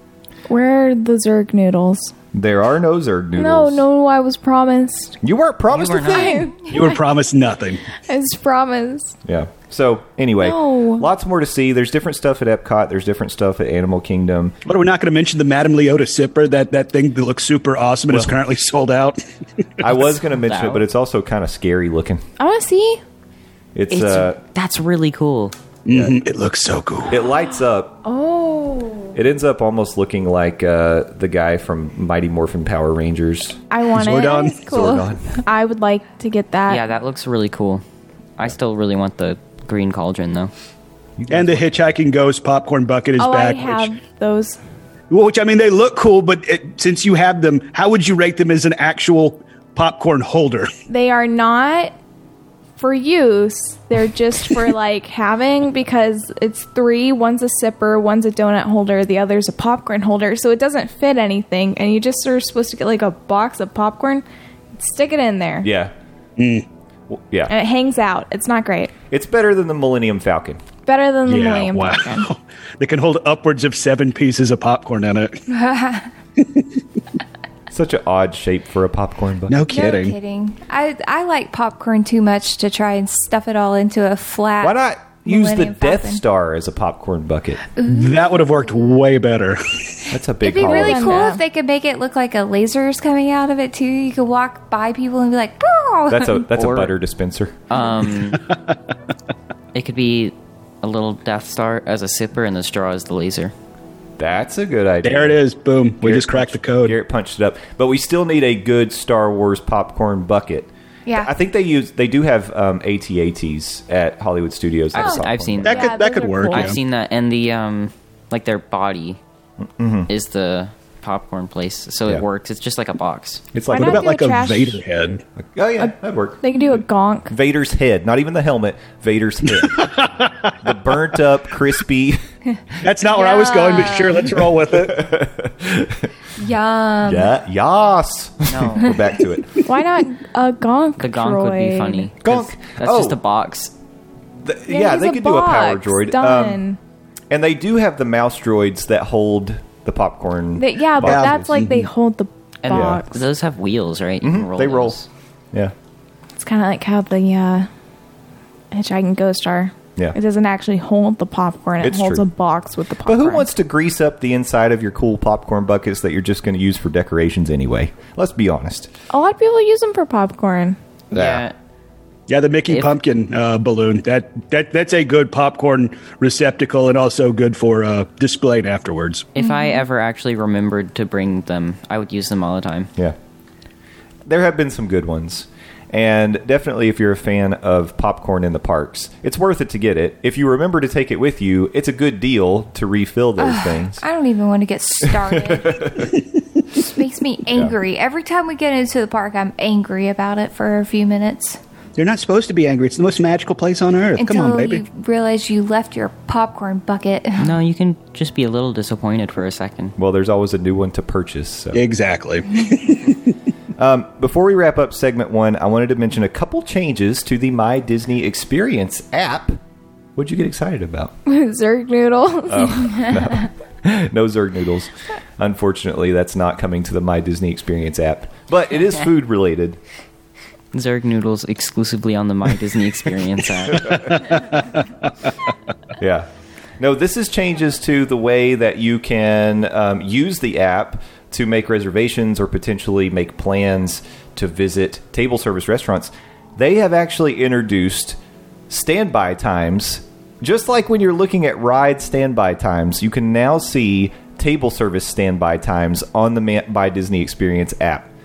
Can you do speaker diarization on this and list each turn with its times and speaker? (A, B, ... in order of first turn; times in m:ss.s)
0:00.5-0:02.1 A
0:02.3-0:03.8 B
0:03.4-0:05.2 A
0:05.2-0:06.5 B
0:05.7-0:06.5 C
0:06.1-0:06.7 A
0:06.7-0:07.8 D
0:08.1-0:09.2 A
0:09.2-0:14.6 B
0:10.4-0:11.1 A
0:14.6-0:19.2 D
0:18.1-0:18.3 B
0:19.8-0:22.2 B
0:20.3-0:20.8 C
0:22.4-0:23.0 A
0:23.8-0:24.4 B
0:23.9-0:25.6 C
0:25.9-0:27.2 D
0:25.9-0:26.2 B
0:27.1-0:28.0 B
0:28.0-0:29.2 A
0:29.1-0:33.6 B
0:33.7-0:36.8 A
0:33.9-0:34.6 D
0:34.6-0:35.4 B
0:36.7-0:37.8 C
0:38.4-0:40.5 C
0:41.2-0:42.0 B
0:41.3-0:43.9 D
0:43.2-0:44.6 A
0:45.1-0:50.7 D
0:50.9-0:52.0 A
0:52.8-1:04.2 A
1:04.8-1:05.7 A
1:05.6-1:05.9 B
1:06.4-1:06.7 D
1:07.1-1:07.5 B
1:07.5-1:08.9 A
1:09.1-1:10.6 B
1:10.9-1:12.3 A
1:11.3-1:15.4 D
1:15.5-1:16.1 E
1:16.4-1:16.6 D
1:17.7-1:19.6 B
1:19.5-1:20.2 D
1:19.7-1:26.2 E
1:24.6-1:27.6 B
1:27.8-1:28.4 E
1:27.8-1:30.1 D
1:30.1-1:31.3 B
1:30.4-1:36.5 E
1:30.6-1:31.4 A
1:36.1-1:37.6 B
1:36.5-1:36.9 C
1:37.7-1:38.4 C
1:38.4-1:38.8 D
1:39.7-1:43.5 C
1:44.2-1:45.4 B
1:45.0-1:47.0 D
1:46.0-1:55.8 B
1:51.1-1:51.3 E
1:54.9-1:59.2 C
1:55.0-1:55.2 E
1:55.6-1:56.8 D
1:55.7-1:56.8 A
1:59.6-2:00.1 B
2:00.1-2:03.4 C
2:03.5-2:04.1 B
2:03.7-2:04.8 A
2:03.7-2:05.2 D
2:05.4-2:06.4 B
2:05.8-2:07.3 A
2:07.3-2:09.9 B
2:09.6-2:10.6 D
2:10.6-2:12.2 B
2:12.8-2:15.1 D
2:13.1-2:14.3 E
2:14.7-2:16.1 B
2:16.4-2:17.3 E
2:17.0-2:19.6 B
2:18.5-2:19.0 C
2:19.6-2:22.1 A
2:21.0-2:23.7 C
2:22.2-2:23.2 B
2:24.4-2:26.6 B
2:24.7-2:26.8 A
2:27.3-2:31.6 B
2:30.6-2:33.2 A
2:31.0-2:31.9 D
2:32.6-2:35.1 C
2:32.7-2:33.0 B
2:34.2-2:35.0 B
2:36.4-2:37.7 A
2:38.7-2:43.5 A
2:41.8-2:42.3 B
2:43.1-2:48.9 B
2:49.1-2:50.8 A
2:51.1-2:51.6 C
2:51.1-2:51.5 B
2:52.3-2:59.3 D
2:59.4-3:02.9 C
3:04.3-3:14.0 B
3:13.4-3:16.1 E
3:15.0-3:16.2 B
3:16.7-3:21.6 E
3:17.5-3:17.8 B
3:22.0-3:24.8 D
3:24.2-3:27.6 E
3:27.4-3:30.0 C
3:30.0-3:31.8 B
3:31.7-3:33.4 D
3:33.8-3:39.6 B
3:40.2-3:41.1 B
3:41.3-3:43.3 A
3:42.5-3:49.8 B
3:50.7-3:54.3 C
3:53.9-3:54.4 D
3:56.0-3:56.3 B
3:56.8-4:08.2 B
4:08.7-4:18.1 B